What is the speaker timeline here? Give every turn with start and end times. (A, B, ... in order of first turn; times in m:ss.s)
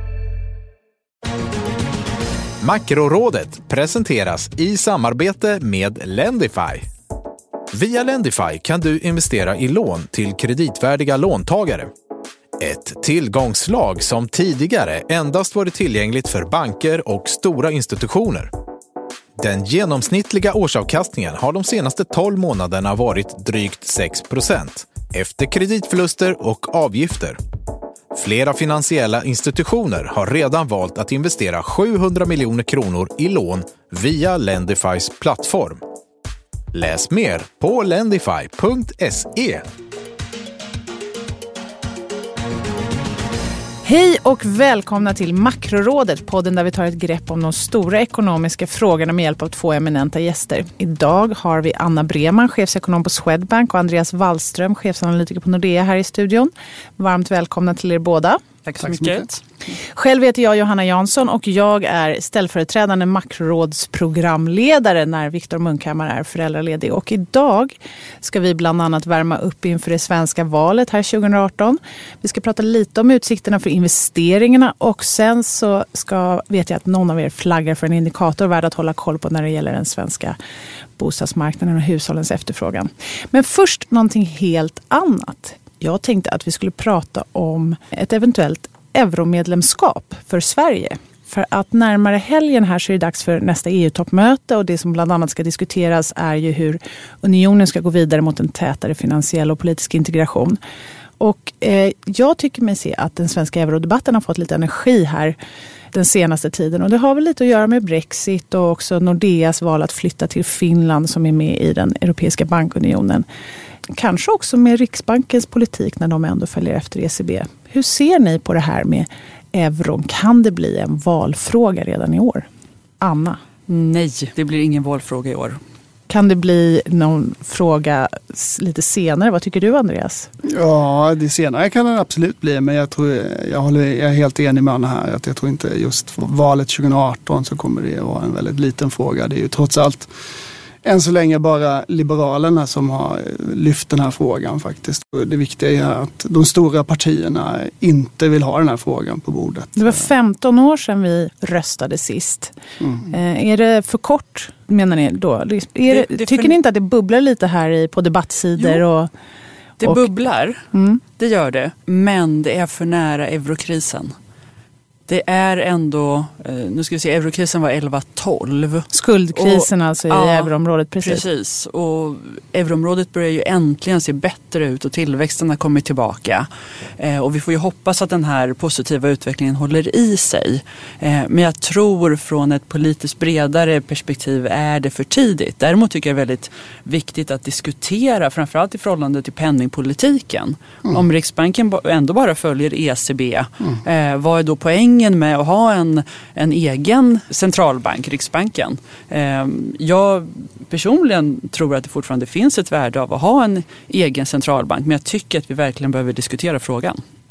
0:02.6-0:06.8 A
0:07.7-0:11.9 A
0:12.6-0:18.5 A
0:19.4-0:27.4 A
0:28.1-0:35.8 A
0:36.7-0:39.6 A
0:43.8-0:58.4 B
0:58.6-0:59.4 C
0:58.8-0:59.3 D
0:59.9-1:20.4 B
1:21.0-1:40.6 B
1:41.2-1:45.3 B
1:45.9-1:53.2 B
1:53.9-2:02.4 B
2:03.0-2:03.4 B
2:03.7-2:05.6 C
2:06.1-2:10.3 B
2:10.4-2:20.1 D
2:20.8-2:30.1 D
2:29.8-2:32.5 B
2:33.1-2:39.1 B
2:35.9-2:36.6 C
2:39.8-2:40.6 C
2:40.7-2:41.0 B
2:41.2-2:44.1 C
2:45.1-3:27.0 C
2:48.9-2:51.2 B